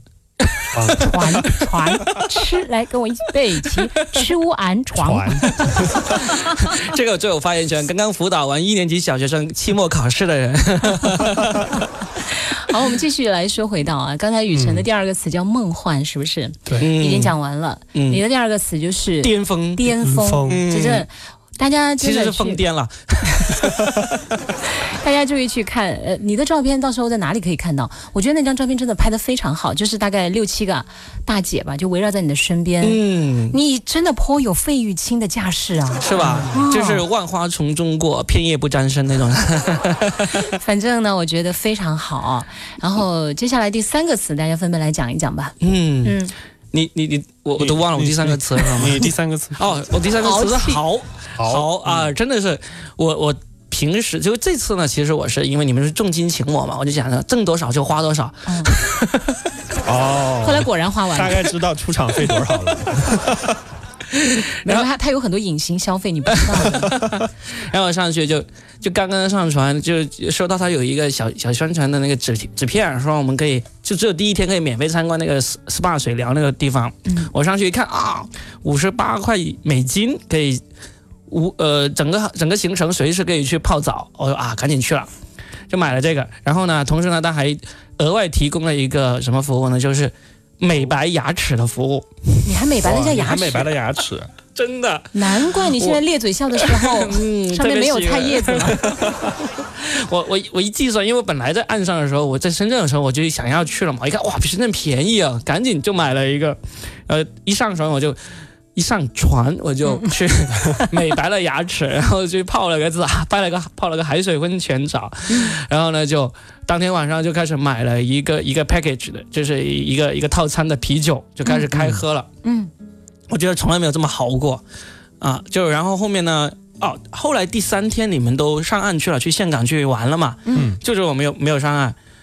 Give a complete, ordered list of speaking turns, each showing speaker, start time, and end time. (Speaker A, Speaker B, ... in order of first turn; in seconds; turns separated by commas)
Speaker A: 0.4-1.0, Speaker B: 0.7-1.1, Speaker C: 0.9-6.7, Speaker B: 4.9-6.1, Speaker A: 6.2-11.9, Speaker C: 12.3-22.6, Speaker B: 14.5-14.8, Speaker A: 16.8-17.3, Speaker A: 17.9-18.2, Speaker A: 19.2-19.9, Speaker B: 20.0-20.6, Speaker A: 20.4-21.0, Speaker A: 22.0-24.1, Speaker C: 24.7-33.0, Speaker A: 32.8-33.5, Speaker C: 33.5-37.0, Speaker A: 36.0-40.4, Speaker B: 36.2-36.5, Speaker C: 40.4-46.3, Speaker A: 45.6-46.2, Speaker A: 46.7-49.0, Speaker B: 47.6-49.7, Speaker A: 49.6-59.4, Speaker C: 50.2-50.8, Speaker B: 51.4-52.1, Speaker C: 58.5-58.7, Speaker B: 59.8-63.6, Speaker C: 60.4-61.5, Speaker A: 64.1-64.8, Speaker C: 64.6-66.9, Speaker A: 66.3-80.6, Speaker A: 81.3-85.1, Speaker A: 85.7-92.1, Speaker C: 92.4-93.7, Speaker B: 92.8-94.3, Speaker A: 94.5-108.2, Speaker C: 95.1-98.9, Speaker A: 108.7-122.3, Speaker C: 115.3-115.6, Speaker B: 121.7-122.0, Speaker C: 122.4-122.7, Speaker A: 123.3-124.6, Speaker A: 125.2-131.9, Speaker C: 130.5-130.7, Speaker B: 130.5-130.8